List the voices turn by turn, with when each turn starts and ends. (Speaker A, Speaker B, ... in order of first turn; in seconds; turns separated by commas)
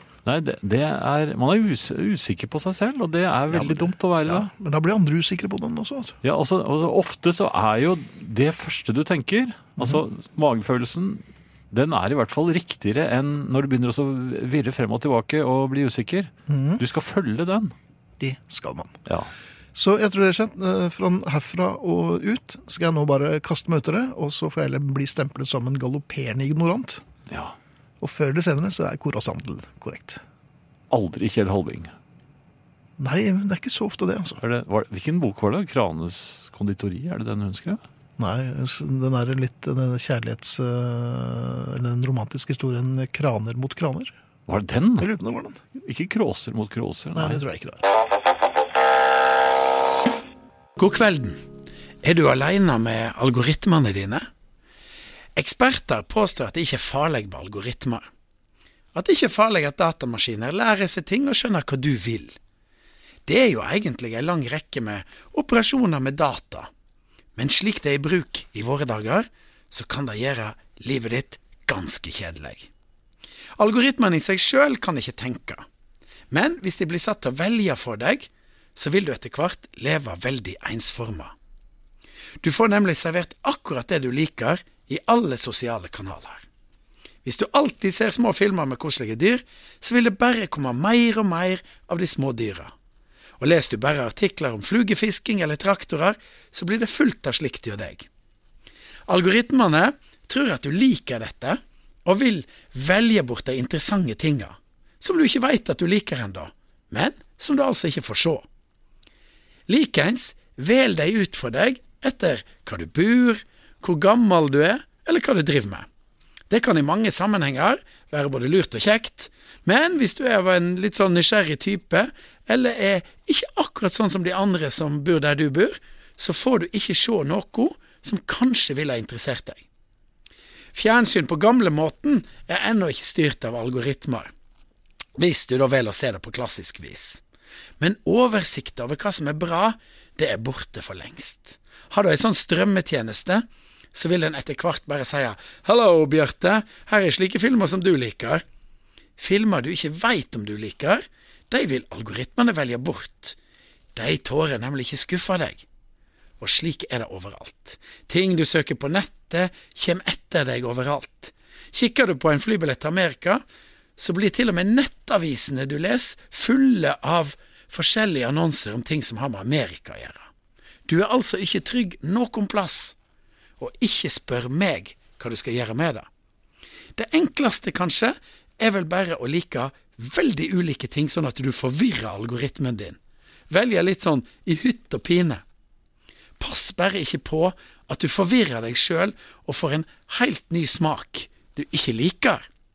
Speaker A: 0.3-4.5, Speaker B: 3.5-6.2, Speaker A: 6.2-17.7, Speaker B: 16.5-16.8, Speaker B: 18.2-19.0, Speaker B: 19.8-27.0, Speaker A: 27.3-27.6, Speaker B: 28.0-30.2, Speaker A: 30.9-31.9, Speaker B: 33.0-34.4, Speaker A: 34.4-37.8, Speaker B: 38.2-44.1, Speaker A: 44.5-45.1, Speaker B: 45.0-45.6, Speaker A: 45.8-47.4, Speaker B: 47.1-47.8, Speaker C: 50.8-51.4, Speaker C: 52.0-54.3, Speaker C: 55.4-58.1, Speaker C: 58.9-62.4, Speaker C: 63.3-66.7, Speaker C: 67.4-72.7, Speaker C: 73.6-75.6, Speaker C: 76.3-81.3, Speaker C: 82.4-86.4, Speaker C: 87.2-92.7, Speaker C: 93.4-98.1, Speaker C: 99.1-108.5, Speaker C: 109.7-115.9, Speaker C: 116.5-129.7, Speaker C: 130.7-134.3, Speaker C: 135.2-137.2, Speaker C: 137.8-148.4, Speaker C: 149.2-153.4, Speaker C: 153.9-155.7, Speaker C: 156.4-163.4, Speaker C: 164.0-170.3, Speaker C: 170.9-173.0, Speaker C: 173.6-176.1, Speaker C: 177.0-183.0, Speaker C: 183.5-185.4, Speaker C: 186.4-192.4